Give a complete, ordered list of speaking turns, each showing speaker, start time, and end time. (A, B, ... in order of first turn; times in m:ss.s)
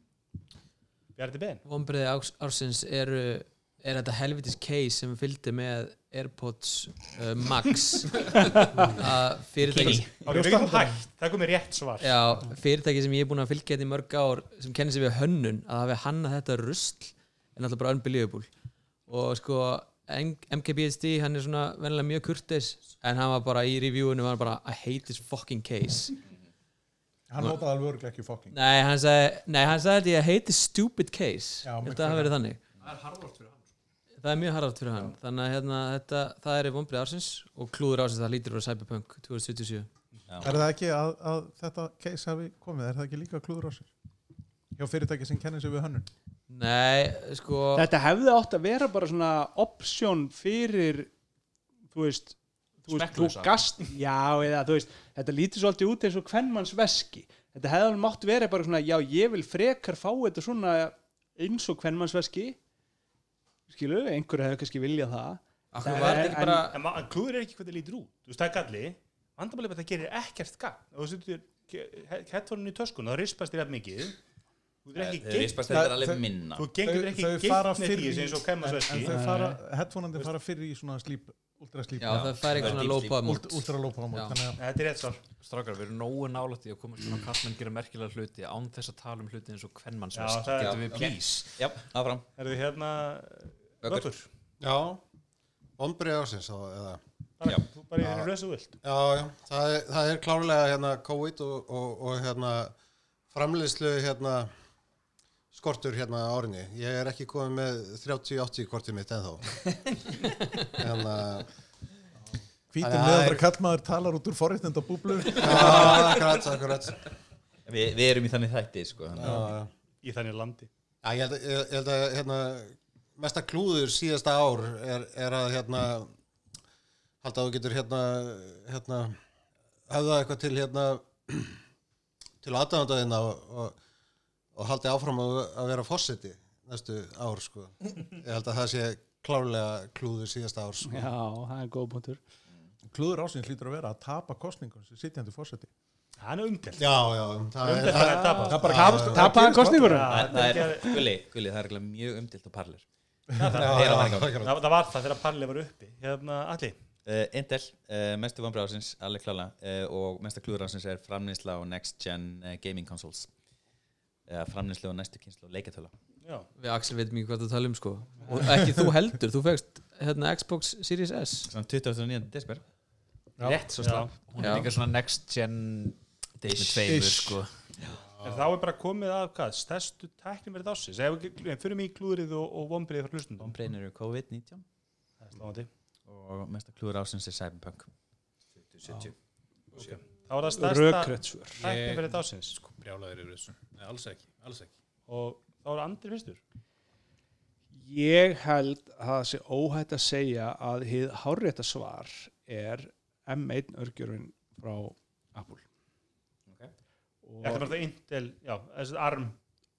0:01.2-0:01.6 A
0:01.6-0:10.2 B
0:09.7-0:10.3 C
0:10.2-0:12.2 A
0:10.2-0:11.0 D
0:12.0-0:18.5 B
0:19.1-0:26.2 B
0:27.3-0:28.5 D
0:28.5-0:32.6 B
0:31.6-0:32.3 D
0:32.8-0:33.7 E
0:34.2-0:39.9 B
0:40.3-0:40.6 C
0:40.4-0:43.9 D
0:44.8-0:46.1 D
0:46.5-0:47.9 B
0:47.8-0:51.1 F
0:51.9-1:02.6 F
0:52.9-0:53.6 E
1:03.7-1:06.7 F
1:05.7-1:06.8 B
1:06.7-1:14.2 A
1:14.8-1:15.7 A
1:14.9-1:16.7 C
1:15.7-1:16.2 D
1:16.6-1:19.1 A
1:16.8-1:24.6 D
1:19.0-1:19.6 F
1:22.0-1:23.3 C
1:22.0-1:24.4 B
1:24.6-1:25.2 A
1:25.4-1:31.7 E
1:30.1-1:30.9 A
1:30.6-1:32.2 C
1:32.4-1:34.3 A
1:34.6-1:35.0 G
1:35.8-1:37.0 G
1:37.4-1:38.8 A
1:38.0-1:38.3 G
1:38.8-1:42.7 G
1:43.3-1:44.5 G
1:45.5-1:49.6 G
1:50.7-1:51.5 G
1:52.7-1:56.2 D
1:52.8-1:53.4 G
1:55.3-1:57.0 G
1:57.6-1:59.4 C
1:59.2-1:59.7 G
2:00.0-2:00.7 A
2:01.0-2:06.1 G
2:07.2-2:09.2 G
2:09.9-2:11.6 G
2:12.4-2:13.8 G
2:14.6-2:21.1 G
2:20.8-2:22.2 F
2:22.9-2:25.7 D
2:26.2-2:26.9 A
2:26.8-2:29.3 G
2:27.6-2:28.8 A
2:28.4-2:30.2 D
2:28.6-2:30.2 F
2:29.8-2:31.1 A
2:30.1-2:32.8 C
2:33.4-2:36.8 A
2:33.5-2:34.6 G
2:33.6-2:34.3 C
2:37.0-2:43.3 C
2:44.3-2:45.9 C
2:46.2-2:46.5 A
2:46.6-2:51.5 B
2:48.4-2:48.8 D
2:51.5-2:52.6 C
2:53.4-2:53.8 D
2:53.8-2:54.1 A
2:54.3-2:57.5 E
2:54.4-2:54.7 B
2:56.8-2:57.4 D
2:58.2-3:03.6 A
3:03.4-3:04.6 C
3:05.2-3:05.7 A
3:06.1-3:07.9 C
3:08.6-3:09.1 C
3:09.8-3:12.6 A
3:10.5-3:11.6 F
3:11.6-3:14.7 H
3:15.1-3:16.4 A
3:17.7-3:25.6 F
3:26.5-3:26.7 C
3:27.2-3:27.8 F
3:27.4-3:29.4 A